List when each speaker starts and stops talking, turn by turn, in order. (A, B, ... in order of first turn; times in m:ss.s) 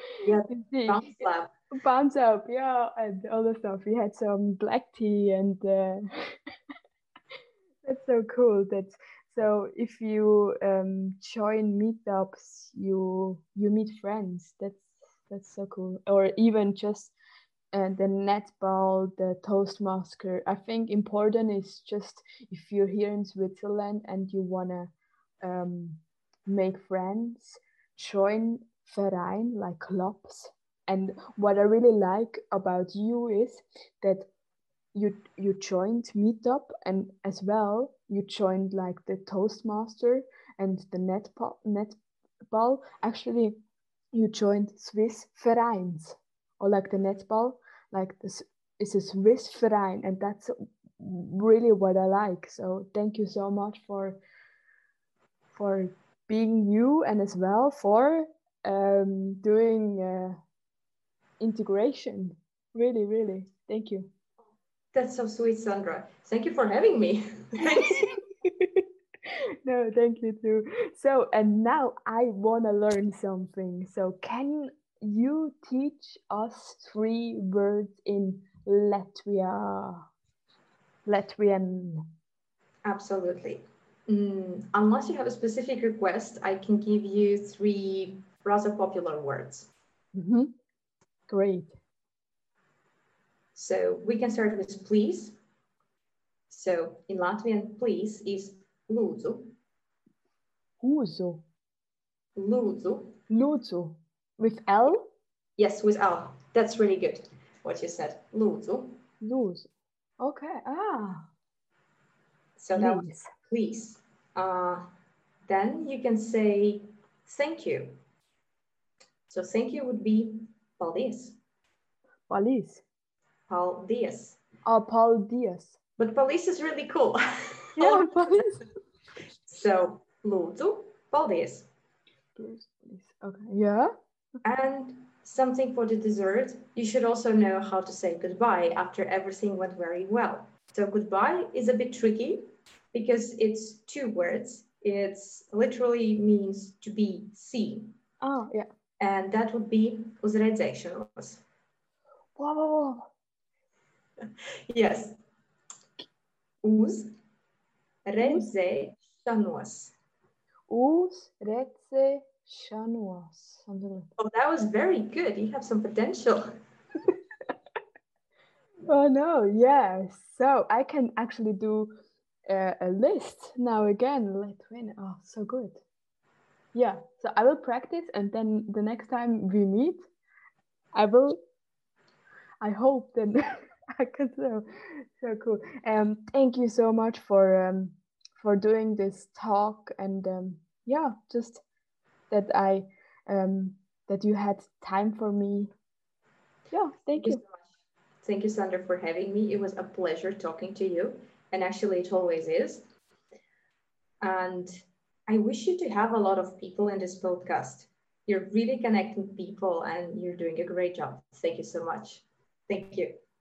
0:00.2-0:01.5 A
0:00.5-0:01.0 B
0:01.7-0:06.4 B
0:07.8-0:17.1 B
0:17.7-0:24.9 B
0:25.4-0:34.3 B
0:34.9-0:42.0 B
0:42.5-0:43.5 B
0:44.1-0:54.2 B
0:55.6-1:00.4 B
1:01.4-1:04.1 B
1:04.9-1:08.2 A
1:07.7-1:20.0 B
1:21.0-1:22.1 B
1:22.8-1:29.7 A
1:30.1-1:30.5 B
1:31.3-1:31.8 B
1:33.5-1:35.4 A
1:36.5-1:39.5 A
1:40.8-1:41.4 B
1:42.4-1:43.2 A
1:43.3-1:45.1 B
1:45.6-1:49.0 A
1:49.2-1:51.3 B
1:52.6-1:54.9 A
1:52.7-1:53.3 B
1:55.4-1:58.0 A
1:59.3-2:01.4 A
2:02.3-2:02.8 B
2:03.5-2:04.4 A
2:04.6-2:05.8 B
2:06.0-2:08.0 A
2:07.8-2:08.6 B
2:09.5-2:11.7 A
2:12.4-2:13.9 B
2:14.4-2:27.9 A
2:28.2-2:28.7 B
2:29.0-2:31.4 A
2:32.4-2:33.1 B
2:34.2-2:35.2 A
2:36.6-2:37.1 A
2:38.0-2:39.9 A
2:40.7-2:44.1 B
2:44.2-2:46.5 A
2:48.9-2:51.9 B
2:52.5-2:55.8 B
2:56.7-3:00.0 B
3:00.9-3:01.4 B
3:02.6-3:11.6 B
3:12.3-3:15.7 B
3:16.7-3:17.4 B
3:17.2-3:22.9 A
3:24.2-3:24.7 A
3:25.3-3:33.1 A